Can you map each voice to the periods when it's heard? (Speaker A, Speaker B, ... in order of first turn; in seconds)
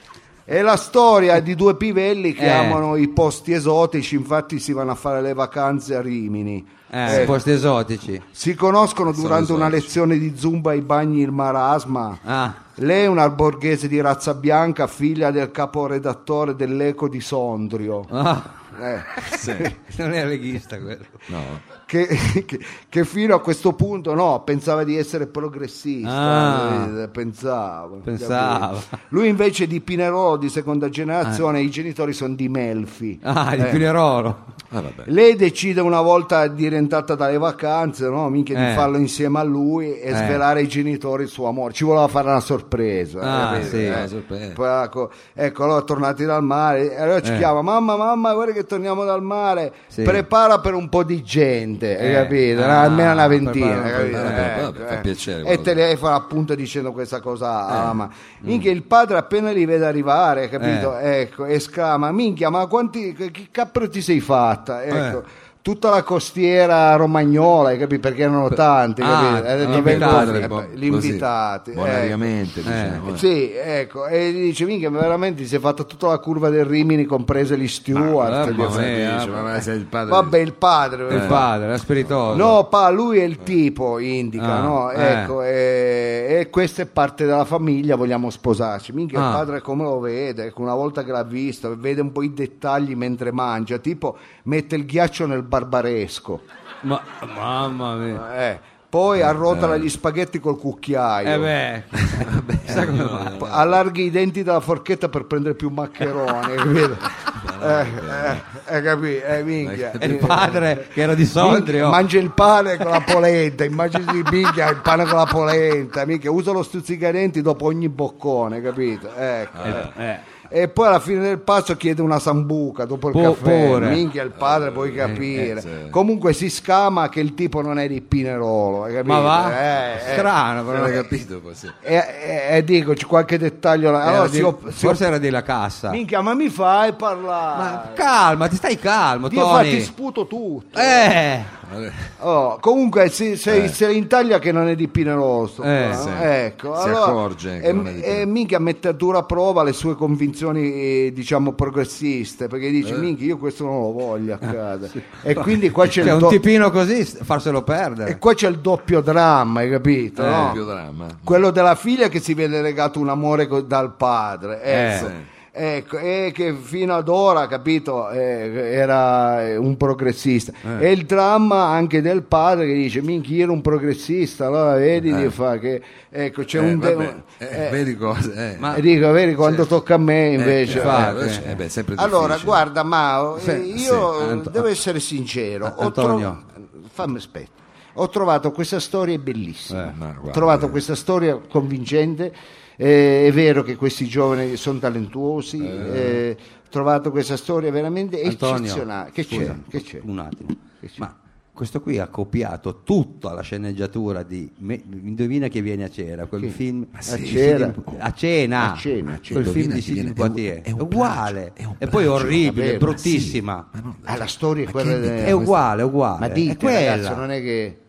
Speaker A: 0.5-7.4, 8.3-12.2, 12.8-18.1, 18.7-19.7, 21.9-33.9, 35.0-72.3, 73.1-78.9, 80.1-81.5, 82.3-96.4, 98.1-101.5, 103.3-110.8, 111.3-119.9, 120.5-130.3, 131.8-135.0, 135.9-138.0, 139.3-141.1, 142.2-156.4, 158.0-160.6, 161.2-177.8, 178.7-181.1, 182.0-200.0, 206.4-207.8, 208.6-209.5, 212.5-213.0, 214.1-215.5, 216.2-217.8
Speaker B: 2.4-2.8, 6.9-8.2, 12.2-12.6, 18.1-18.6, 19.9-21.2, 26.0-26.9, 28.1-28.9, 33.2-34.4, 38.5-38.9, 40.1-40.4, 43.2-44.0, 47.2-47.5, 49.9-50.2, 52.0-54.5, 60.6-60.9, 64.9-65.2, 69.0-70.5, 72.7-73.0, 78.0-79.5, 81.1-82.6, 84.4-85.3, 89.1-89.4, 96.8-98.2, 101.2-103.5, 110.0-112.0, 119.7-120.2, 123.1-124.0, 129.0-131.0, 134.0-136.0, 137.5-139.9, 140.7-141.5, 145.6-146.0, 155.9-158.2, 160.2-160.5, 164.7-165.1, 180.7-181.5, 183.4-184.6, 185.6-186.4, 198.2-213.7, 215.2-217.2
Speaker C: 7.0-7.3, 9.1-9.9, 19.3-19.7, 21.3-21.6, 34.7-35.1, 43.3-44.6, 53.9-55.8, 69.6-73.2, 78.3-80.4, 81.1-81.5, 82.0-82.5, 99.2-99.9, 102.0-103.7, 107.2-108.4, 109.6-110.6, 119.5-119.9, 124.3-126.0, 130.0-131.7, 141.6-142.1, 143.5-143.8, 145.9-148.3, 152.8-153.1, 160.2-161.4, 164.9-165.3, 175.1-175.3, 176.5-178.8, 179.4-179.7, 180.3-182.6, 183.8-184.1, 189.9-190.8, 195.6-196.2, 207.0-208.0, 209.3-215.5